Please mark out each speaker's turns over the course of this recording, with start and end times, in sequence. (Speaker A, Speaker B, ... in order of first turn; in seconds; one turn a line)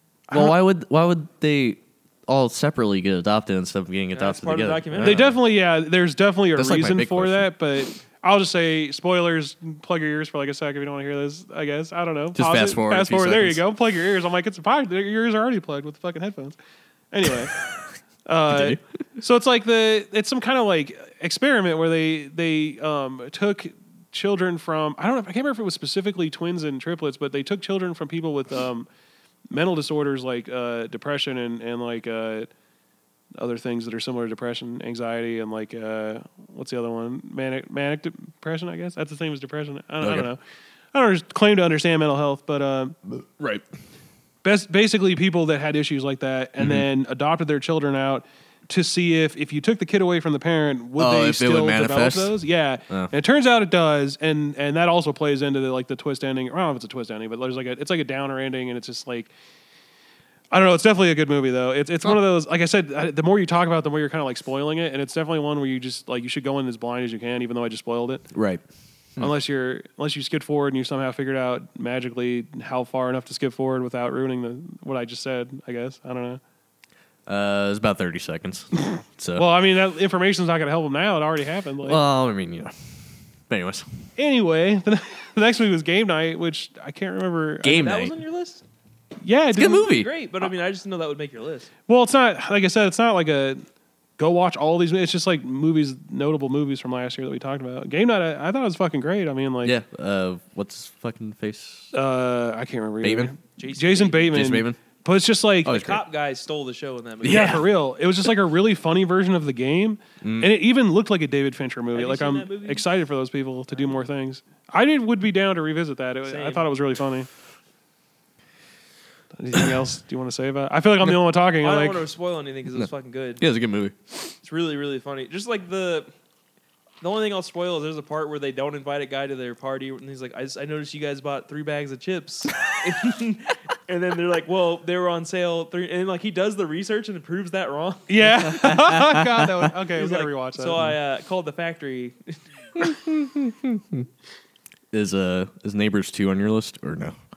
Speaker A: 0.3-0.6
Speaker B: 0.3-5.3
Speaker C: 4.1-5.3
Speaker A: 5.0-16.6
Speaker B: 6.6-7.5
Speaker B: 12.3-13.6
Speaker A: 17.1-17.5
Speaker A: 18.3-28.9
Speaker B: 18.5-18.8
Speaker A: 29.5-32.5
Speaker A: 33.4-40.4
Speaker B: 40.0-40.3
Speaker A: 40.9-43.0
Speaker B: 43.3-43.6
Speaker A: 44.4-59.3
Speaker B: 46.6-46.9
Speaker B: 51.0-52.4
Speaker A: 60.5-68.3
Speaker B: 68.3-68.6
Speaker A: 69.2-76.4
Speaker B: 77.3-79.5
Speaker A: 79.3-82.0
Speaker B: 81.8-83.9
Speaker A: 84.2-87.8
Speaker B: 87.6-88.2
Speaker C: 87.7-88.6
Speaker A: 89.2-90.0
Speaker B: 89.5-90.1
Speaker C: 89.8-91.7
Speaker A: 91.9-93.7
Speaker A: 94.2-99.8
Speaker B: 99.6-101.9
Speaker A: 101.9-105.8
Speaker B: 103.0-103.3
Speaker C: 103.6-104.4
Speaker B: 104.3-104.8
Speaker B: 105.7-106.0
Speaker C: 105.7-107.7
Speaker B: 107.2-107.7
Speaker A: 107.2-117.3
Speaker B: 110.2-110.5
Speaker C: 112.0-112.8
Speaker C: 116.3-116.7
Speaker A: 119.4-122.0
Speaker C: 121.6-123.5
Speaker B: 122.7-124.3
Speaker C: 124.4-126.1
Speaker C: 127.0-138.5
Speaker A: 138.1-140.8
Speaker B: 138.5-139.2
Speaker C: 139.9-142.4
Speaker B: 142.8-144.1
Speaker B: 144.9-147.2